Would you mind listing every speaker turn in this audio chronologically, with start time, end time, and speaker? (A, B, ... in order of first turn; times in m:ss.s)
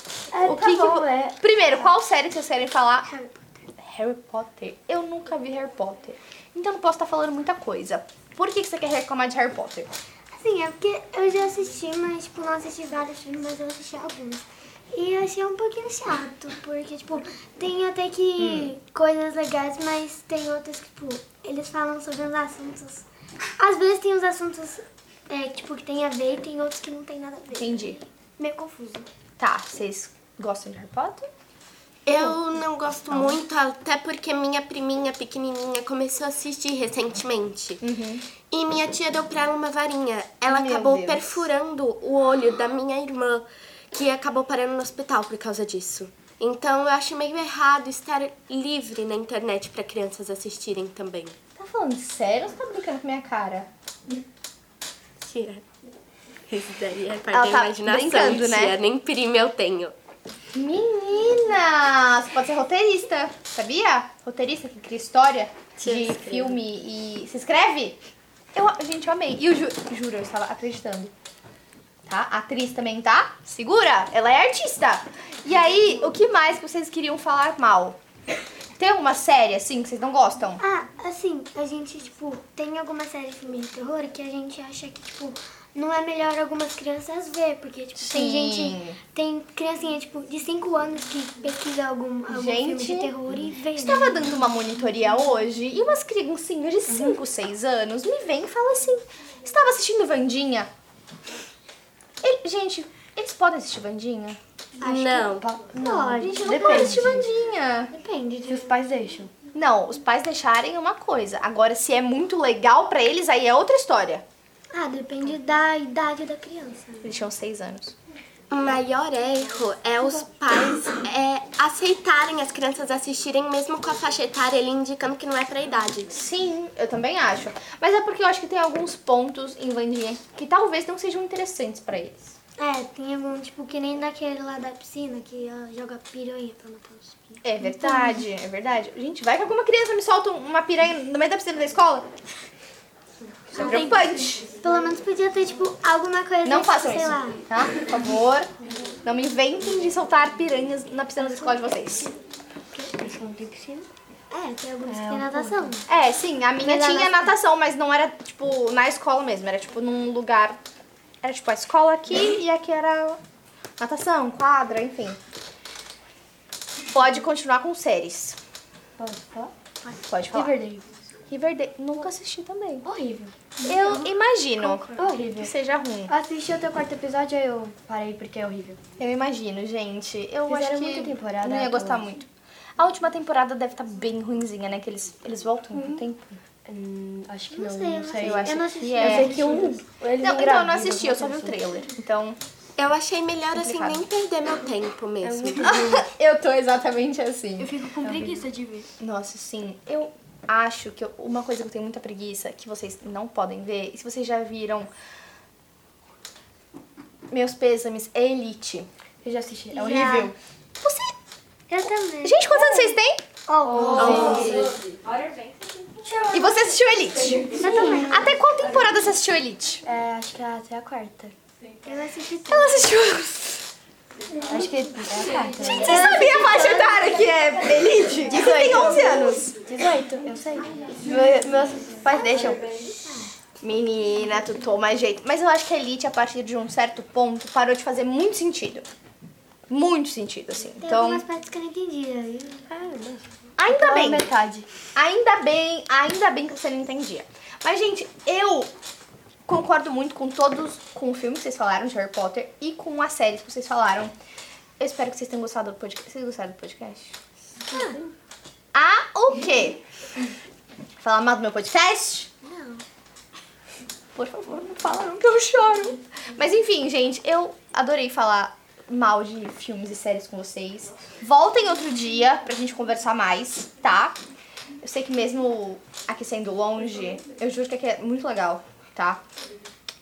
0:00.3-0:01.4 A
0:00.4-0:03.1 B
0:03.0-0:03.6 C
0:03.8-0:09.9 B
0:10.3-0:23.1 C
0:18.4-0:18.8 B
0:23.6-0:29.1 C
0:27.6-0:28.0 B
0:29.4-0:31.3 B
0:32.1-0:37.8 D
0:32.1-0:32.4 B
0:37.8-0:38.3 B
0:38.5-0:51.4 D
0:40.5-0:41.5 B
0:51.6-0:53.7 B
0:55.2-0:55.6 D
0:56.5-1:00.0 D
0:57.3-0:58.8 B
1:00.5-1:08.0 B
1:05.8-1:06.6 D
1:08.6-1:11.1 B
1:12.1-1:18.0 B
1:18.8-1:20.6 B
1:20.6-1:34.4 C
1:28.0-1:29.0 B
1:32.3-1:33.2 B
1:33.7-1:40.7 B
1:36.9-1:37.2 A
1:42.2-1:44.4 B
1:44.8-1:47.1 C
1:44.8-1:45.5 D
1:45.4-1:47.3 A
1:46.2-1:47.9 B
1:47.9-1:48.8 C
1:48.4-1:49.3 A
1:49.5-1:54.2 B
1:54.7-1:57.2 C
1:57.0-1:58.0 B
1:58.5-2:06.1 D
2:06.1-2:12.4 B
2:12.6-2:18.2 C
2:17.4-2:22.1 B
2:23.5-2:24.4 B
2:23.5-2:27.4 C
2:26.4-2:28.5 B
2:29.0-2:32.1 B
2:32.9-2:33.9 A
2:34.3-2:35.9 C
2:34.9-2:35.7 A
2:35.9-2:40.6 B
2:36.6-2:37.4 C
2:41.2-2:43.2 B
2:43.8-2:45.2 B
2:46.9-2:48.4 B
2:49.0-2:49.5 A
2:50.0-2:50.5 B
2:50.3-2:50.9 A
2:51.3-2:52.9 B
2:52.8-2:53.5 A
2:53.6-2:55.1 C
2:53.6-2:56.1 B
2:55.0-2:55.5 A
2:56.1-2:58.8 A
2:59.0-3:06.3 B
3:00.5-3:02.1 A
3:05.8-3:11.7 A
3:07.5-3:09.8 C
3:08.2-3:09.4 B
3:10.2-3:12.4 B
3:12.8-3:15.8 D
3:13.5-3:14.1 B
3:15.2-3:16.0 A
3:15.6-3:17.8 B
3:17.6-3:18.8 A
3:18.0-3:18.5 C
3:19.0-3:24.9 B
3:27.3-3:28.9 B
3:29.2-3:30.3 A
3:29.7-3:30.3 C
3:30.0-3:30.3 B
3:30.8-3:31.2 B
3:31.7-3:34.6 C
3:32.2-3:33.2 B
3:33.7-3:34.8 A
3:34.0-3:34.4 B
3:36.3-3:39.8 B
3:37.4-3:38.2 A
3:37.5-3:38.3 C
3:39.8-3:41.3 A
3:41.8-3:43.0 C
3:42.5-3:43.6 B
3:44.5-3:46.2 A
3:45.3-3:47.5 C
3:45.8-3:49.6 B
3:48.3-3:52.7 A
3:52.0-3:53.4 C
3:53.6-3:58.9 B
3:59.7-4:01.2 B
4:00.8-4:02.7 C
4:02.7-4:04.7 A
4:03.6-4:04.3 B
4:05.0-4:08.7 B
4:09.5-4:14.1 B
4:14.8-4:17.2 B
4:17.7-4:18.0 C
4:18.7-4:19.8 B
4:21.0-4:22.3 B
4:22.4-4:22.8 C
4:24.2-4:34.2 B
4:34.8-4:39.2 B